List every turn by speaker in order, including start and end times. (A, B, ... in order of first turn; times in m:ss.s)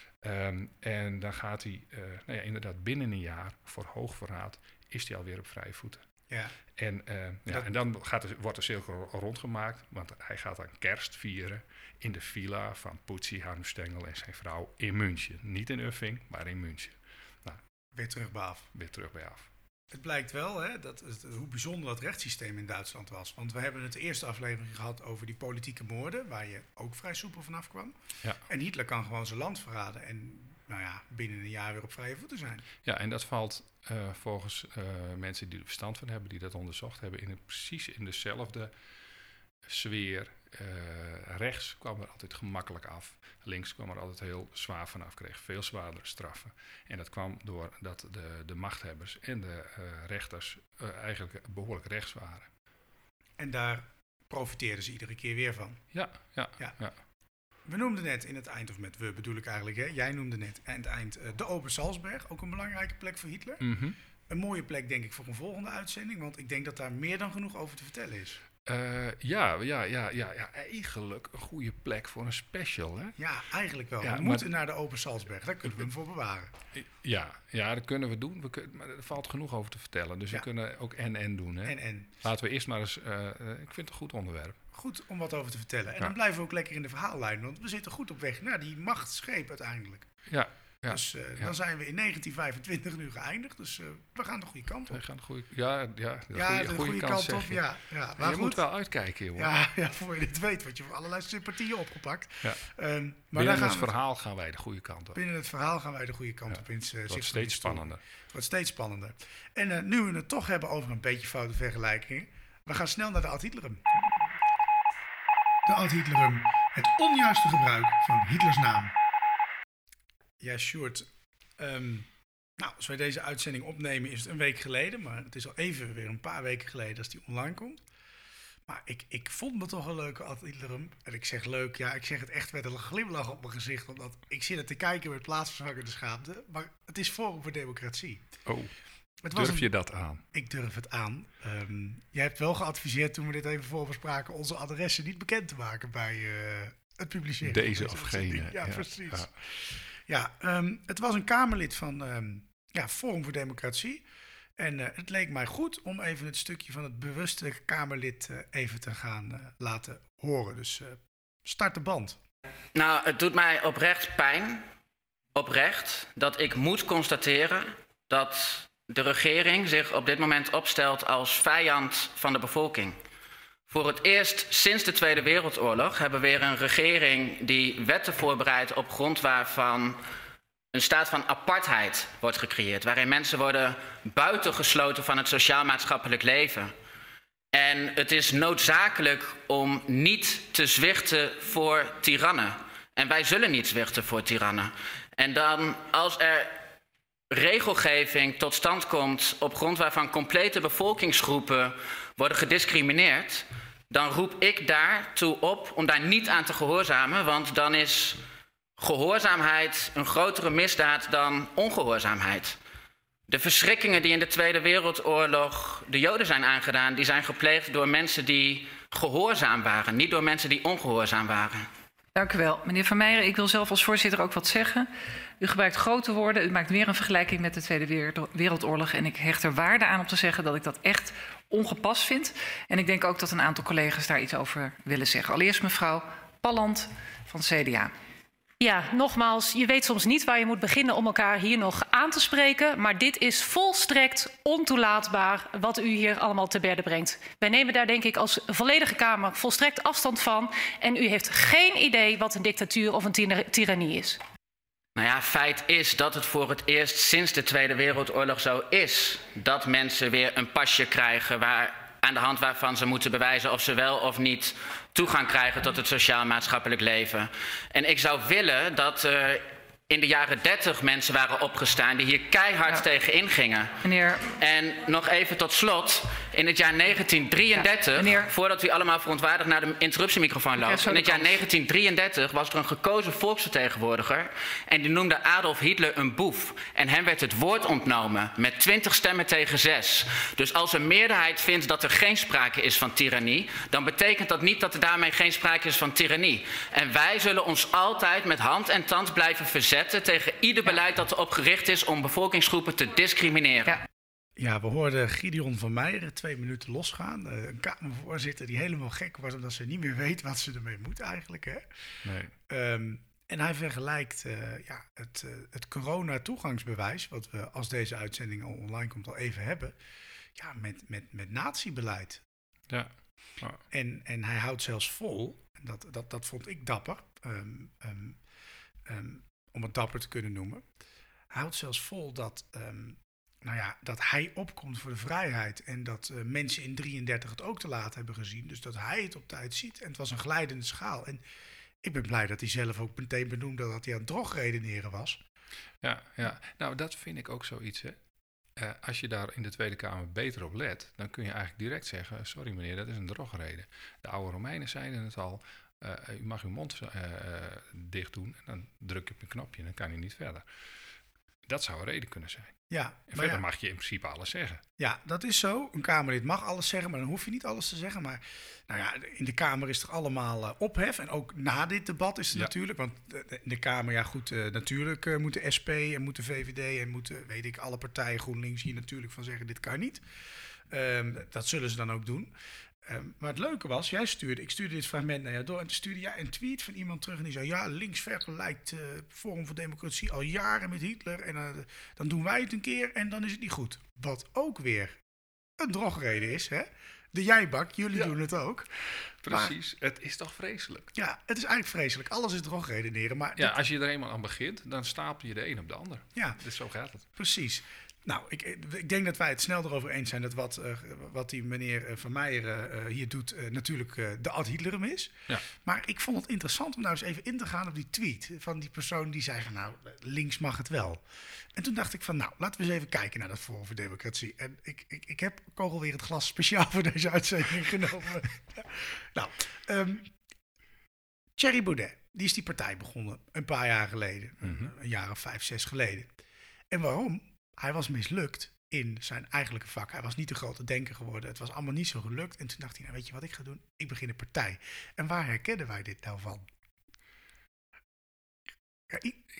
0:00.2-0:06.0 A
0:06.3-0:06.6 B
0:06.7-0:17.6 A
0:17.9-0:18.7 B
0:18.7-0:19.5 A
0:19.9-0:27.9 B
0:28.5-0:32.6 B
0:32.8-0:38.7 A
0:39.6-0:52.5 A
0:53.4-0:55.8 B
0:55.9-0:57.0 A
0:57.7-1:03.7 B
1:03.6-1:04.0 A
1:04.3-1:08.4 B
1:08.6-1:13.2 A
1:13.2-1:16.5 B
1:14.0-1:14.5 A
1:16.7-1:24.6 A
1:21.6-1:22.2 B
1:24.7-1:30.1 B
1:30.3-1:31.5 A
1:30.9-1:35.0 B
1:34.9-1:37.6 A
1:36.3-1:38.6 B
1:38.2-1:39.5 A
1:39.3-1:43.9 B
1:43.3-1:45.2 A
1:45.1-1:54.2 B
1:46.5-1:48.0 A
1:55.6-1:58.9 B
2:00.4-2:07.8 B
2:08.7-2:18.2 B
2:18.4-2:18.7 A
2:19.2-2:19.7 B
2:19.3-2:20.2 A
2:20.3-2:34.0 B
2:27.4-2:29.3 A
2:34.6-2:42.2 B
2:42.7-2:44.6 C
2:45.3-2:53.0 C
2:53.7-3:00.0 C
3:00.7-3:06.7 C
3:07.5-3:16.5 C
3:17.3-3:28.2 C
3:28.8-3:32.6 C
3:33.3-3:41.7 C
3:42.2-3:44.9 D
3:45.4-3:57.9 D
3:58.6-4:14.2 E
4:15.0-5:03.8 C
4:33.8-4:34.3 D
4:37.6-4:38.3 D
4:40.6-4:41.4 D
5:04.4-5:19.8 B
5:12.0-5:12.3 A
5:20.4-5:22.2 B
5:22.7-5:23.6 A
5:23.7-5:28.2 B
5:28.8-5:30.6 B
5:31.3-5:41.2 B
5:41.8-5:45.2 B
5:45.8-5:48.0 A
5:48.6-6:00.4 A
6:01.5-6:04.6 A
6:02.7-6:03.4 B
6:04.8-6:20.0 B
6:20.7-6:22.3 B
6:22.8-6:35.0 B
6:35.6-6:38.7 B
6:39.2-6:40.9 A
6:39.2-6:39.5 B
6:40.9-6:43.6 B
6:43.4-6:47.0 A
6:46.1-6:46.4 B
6:47.1-7:10.1 B
7:11.4-7:16.1 B
7:14.4-7:14.7 A
7:16.7-7:26.5 B
7:28.9-7:29.2 B